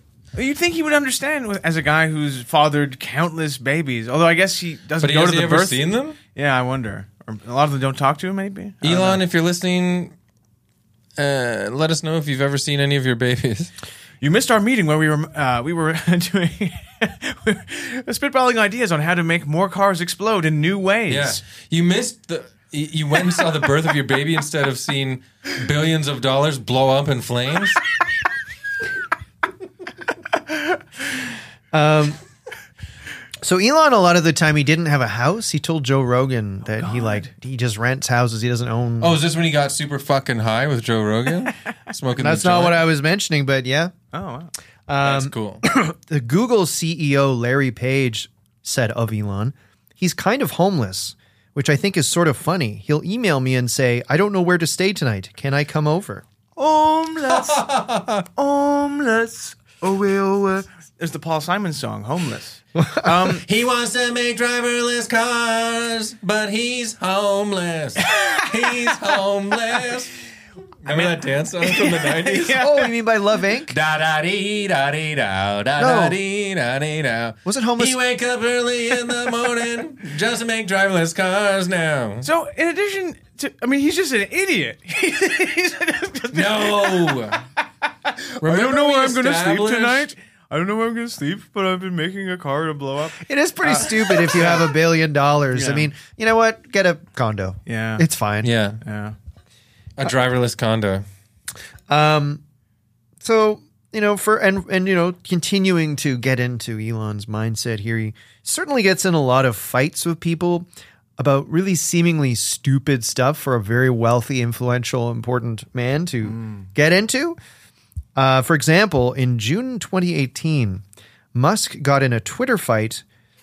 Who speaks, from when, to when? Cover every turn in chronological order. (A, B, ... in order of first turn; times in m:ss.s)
0:00.3-0:09.2 A
0:05.0-0:06.2 B
0:08.8-0:10.1 B
0:11.2-0:13.7 B
0:14.2-0:21.4 A
0:21.1-0:27.8 B
0:31.7-0:32.2 C
0:33.4-0:39.2 C
0:36.7-0:37.3 A
0:39.0-0:42.8 B
0:42.2-0:43.9 C
0:44.1-0:44.5 A
0:44.9-0:56.2 C
0:45.0-0:45.6 B
0:56.6-0:57.6 A
0:57.3-0:58.3 B
0:58.4-1:03.4 A
1:02.8-1:03.1 C
1:03.4-1:10.1 B
1:08.0-1:08.5 A
1:10.8-1:12.7 B
1:11.6-1:12.8 A
1:12.6-1:13.8 C
1:13.7-1:22.3 B
1:15.8-1:16.2 C
1:17.4-1:18.0 C
1:22.2-1:27.3 A
1:26.3-1:27.4 B
1:28.0-1:34.7 A
1:28.4-1:30.1 B
1:33.2-1:38.5 C
1:35.5-1:35.9 A
1:37.6-1:38.0 A
1:38.4-1:38.8 B
1:38.8-1:39.2 A
1:40.0-1:41.0 B
1:41.9-1:42.4 C
1:43.2-1:57.4 C
1:58.2-2:03.0 C